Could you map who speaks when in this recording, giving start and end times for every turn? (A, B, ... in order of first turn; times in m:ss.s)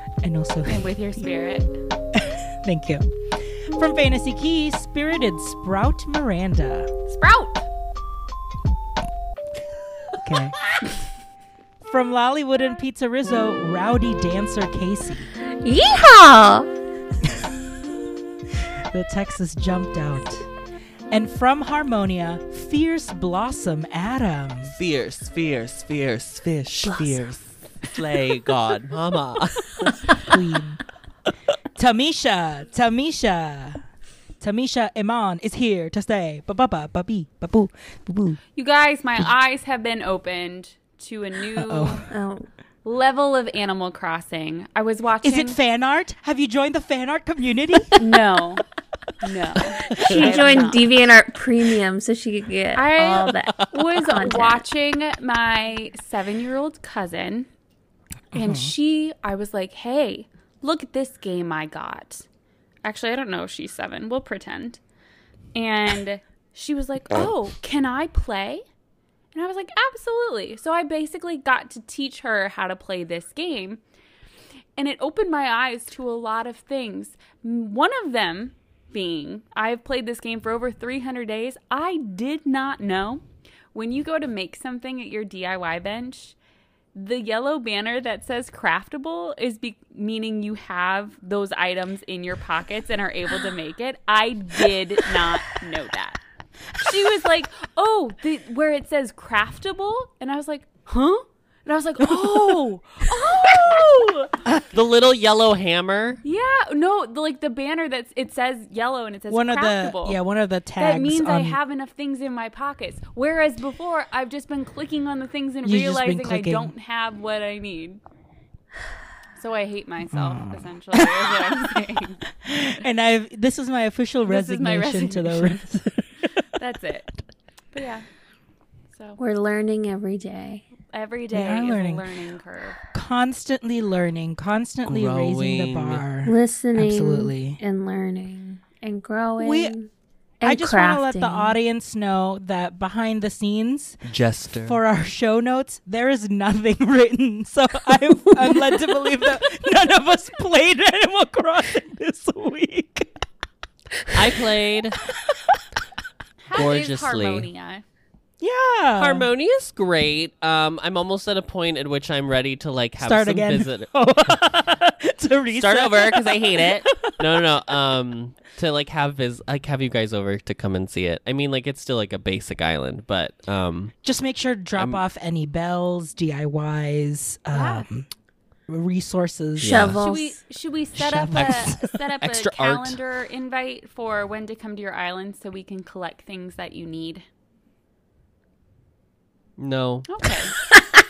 0:00.2-0:01.3 A
0:00.7-0:01.7 B
0:02.1-0:06.9 A
0:07.1-0:07.7 B
0:10.2-0:10.6 A
0:11.8-0:15.3 A
0:15.6-0:16.7 C
0:18.9-0:20.4 A
0:21.1-0:24.8 A
0:24.8-0:30.2 D
0:30.2-0:30.8 A
0:31.8-0:33.8 A
0:34.4-0:38.4 A
0:38.5-0:42.1 B
0:41.5-0:42.0 A
0:42.1-0:42.5 C
0:42.8-0:45.6 B
0:45.2-0:48.0 A
0:48.0-0:48.6 B
0:49.2-0:50.9 B
0:50.0-0:54.6 C
0:52.7-0:57.5 B
0:53.3-0:53.7 D
0:58.3-0:58.7 A
0:58.3-1:02.2 B
1:02.8-1:04.8 B
1:05.5-1:08.6 B
1:09.3-1:13.8 B
1:14.8-1:26.4 B
1:26.9-1:36.2 B
1:36.8-1:44.4 B
1:42.0-1:43.8 A
1:44.7-1:46.2 D
1:46.2-1:50.2 B
1:49.3-1:51.6 A
1:50.8-1:58.0 B
1:55.6-1:56.7 A
1:59.4-2:02.2 B
2:00.1-2:01.5 A
2:02.3-2:06.2 A
2:04.2-2:05.6 B
2:06.6-2:07.1 B
2:07.7-2:08.0 B
2:08.9-2:09.2 B
2:09.2-2:10.6 C
2:10.9-2:12.8 B
2:11.3-2:12.0 A
2:12.9-2:17.6 A
2:14.8-2:16.0 D
2:16.2-2:19.9 C
2:19.4-2:19.7 A
2:20.4-2:21.5 C
2:20.4-2:24.0 A
2:24.0-2:24.8 D
2:24.6-2:33.2 A
2:34.1-2:35.0 D
2:35.3-2:35.6 A
2:36.4-2:37.8 B
2:36.5-2:37.5 D
2:38.4-2:39.3 A
2:39.0-2:43.9 D
2:43.0-2:47.4 A
2:45.5-2:53.9 D
2:54.0-2:58.1 A
2:54.8-2:55.0 D
2:57.5-2:57.8 B
2:58.7-3:00.0 A
2:59.6-3:00.0 D
2:59.6-3:00.4 C
3:00.0-3:07.2 B
3:00.9-3:02.0 A
3:02.2-3:03.0 D
3:09.6-3:10.1 D
3:10.1-3:10.6 B